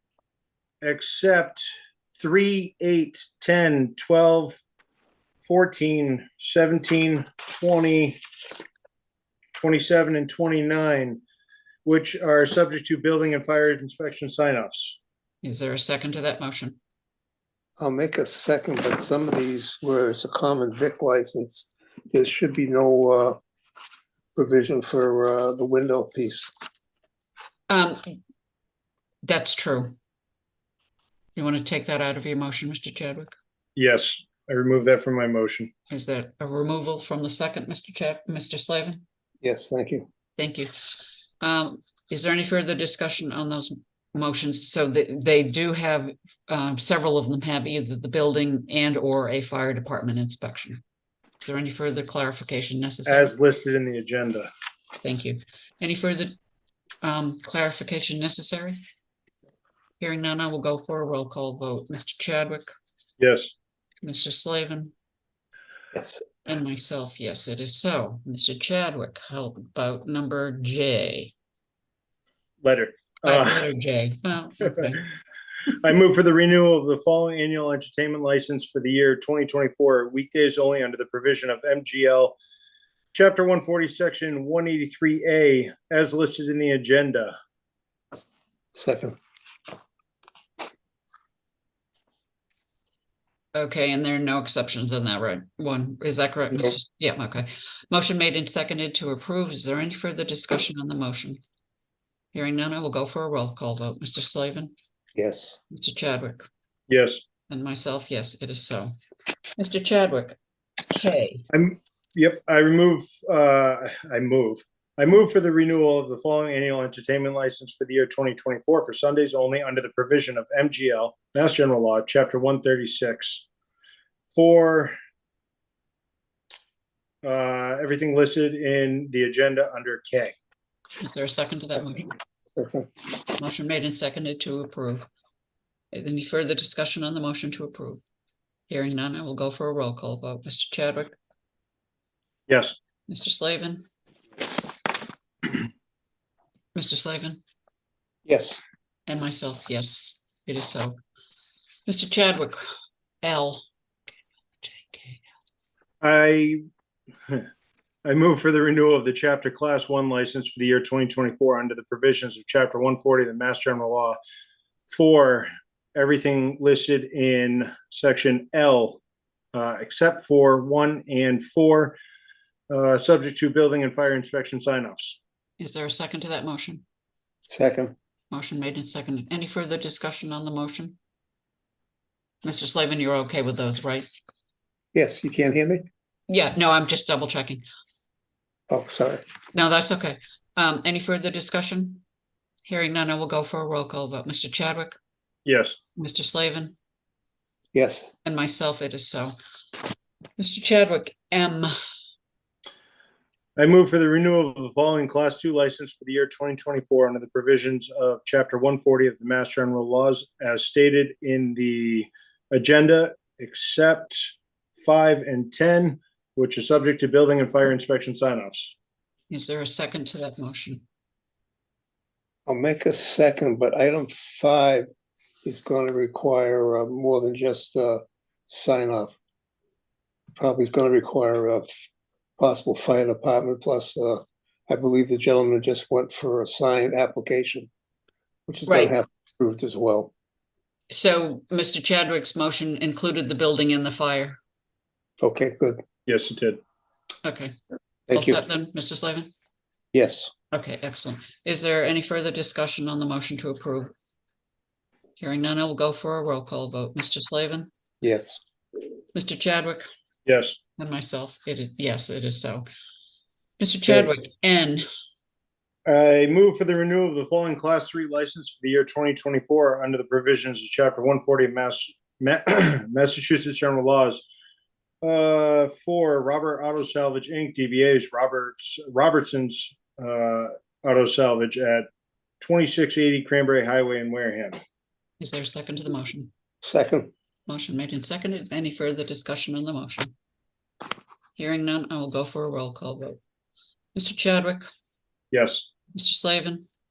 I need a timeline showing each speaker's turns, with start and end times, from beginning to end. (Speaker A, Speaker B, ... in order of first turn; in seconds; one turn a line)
Speaker A: 0.8-4.6
Speaker A: 5.4-8.2
Speaker A: 9.5-11.2
Speaker A: 11.8-15.0
Speaker B: 15.4-16.8
Speaker C: 17.8-23.4
Speaker C: 24.4-26.5
Speaker B: 27.7-28.0
Speaker B: 29.2-29.9
Speaker B: 31.4-33.4
Speaker A: 33.8-35.7
Speaker B: 35.9-39.0
Speaker C: 39.4-40.1
Speaker B: 40.4-40.7
Speaker B: 41.4-50.8
Speaker B: 51.4-53.3
Speaker A: 53.0-54.5
Speaker B: 55.0-56.3
Speaker B: 57.0-58.8
Speaker B: 60.0-62.7
Speaker A: 63.2-63.5
Speaker B: 64.0-64.9
Speaker C: 65.9-66.3
Speaker B: 66.4-71.3
Speaker A: 72.6-73.6
Speaker B: 73.2-75.0
Speaker A: 75.7-82.4
Speaker A: 83.1-87.3
Speaker C: 88.7-89.2
Speaker B: 93.5-101.4
Speaker B: 102.3-104.7
Speaker C: 105.1-105.6
Speaker B: 105.7-106.5
Speaker A: 106.9-107.2
Speaker B: 107.5-108.9
Speaker B: 109.6-110.4
Speaker B: 110.9-111.4
Speaker A: 111.5-123.5
Speaker A: 124.3-124.9
Speaker A: 127.2-130.3
Speaker B: 131.0-132.1
Speaker C: 132.6-132.9
Speaker B: 133.3-135.1
Speaker B: 135.9-138.0
Speaker B: 138.7-141.2
Speaker A: 142.5-142.8
Speaker B: 143.1-143.8
Speaker B: 146.7-147.4
Speaker C: 148.2-148.6
Speaker B: 149.1-150.9
Speaker B: 151.8-152.6
Speaker B: 153.2-153.6
Speaker B: 154.6-155.2
Speaker A: 156.0-156.6
Speaker A: 158.0-164.2
Speaker A: 164.9-169.0
Speaker A: 169.5-172.0
Speaker A: 172.7-175.2
Speaker B: 175.6-176.8
Speaker C: 177.5-177.9
Speaker B: 178.3-180.9
Speaker B: 182.4-184.1
Speaker C: 184.9-185.8
Speaker B: 186.3-187.6
Speaker C: 188.7-189.2
Speaker B: 189.5-192.0
Speaker B: 192.7-195.0
Speaker A: 195.4-195.8
Speaker B: 196.0-196.7
Speaker C: 197.7-198.1
Speaker B: 198.2-199.3
Speaker B: 200.4-201.7
Speaker A: 203.6-218.7
Speaker B: 219.3-220.8
Speaker C: 222.5-224.8
Speaker C: 225.4-229.1
Speaker C: 230.3-231.7
Speaker C: 232.4-237.7
Speaker C: 238.5-240.1
Speaker B: 238.7-238.9
Speaker B: 240.9-244.4
Speaker C: 245.2-245.8
Speaker A: 246.1-246.6
Speaker B: 247.2-247.5
Speaker B: 248.1-249.3
Speaker C: 248.1-248.4
Speaker C: 249.9-250.3
Speaker B: 250.5-253.9
Speaker B: 255.2-257.7
Speaker C: 258.0-258.4
Speaker B: 259.1-259.9
Speaker A: 260.2-260.6
Speaker B: 260.8-262.6
Speaker B: 263.6-264.8
Speaker C: 263.9-264.2
Speaker A: 265.9-274.2
Speaker A: 275.0-281.9
Speaker A: 282.4-284.6
Speaker B: 285.2-286.3
Speaker C: 286.6-287.1
Speaker B: 287.5-290.1
Speaker B: 291.4-293.2
Speaker B: 293.9-294.6
Speaker A: 295.3-295.7
Speaker B: 295.9-296.6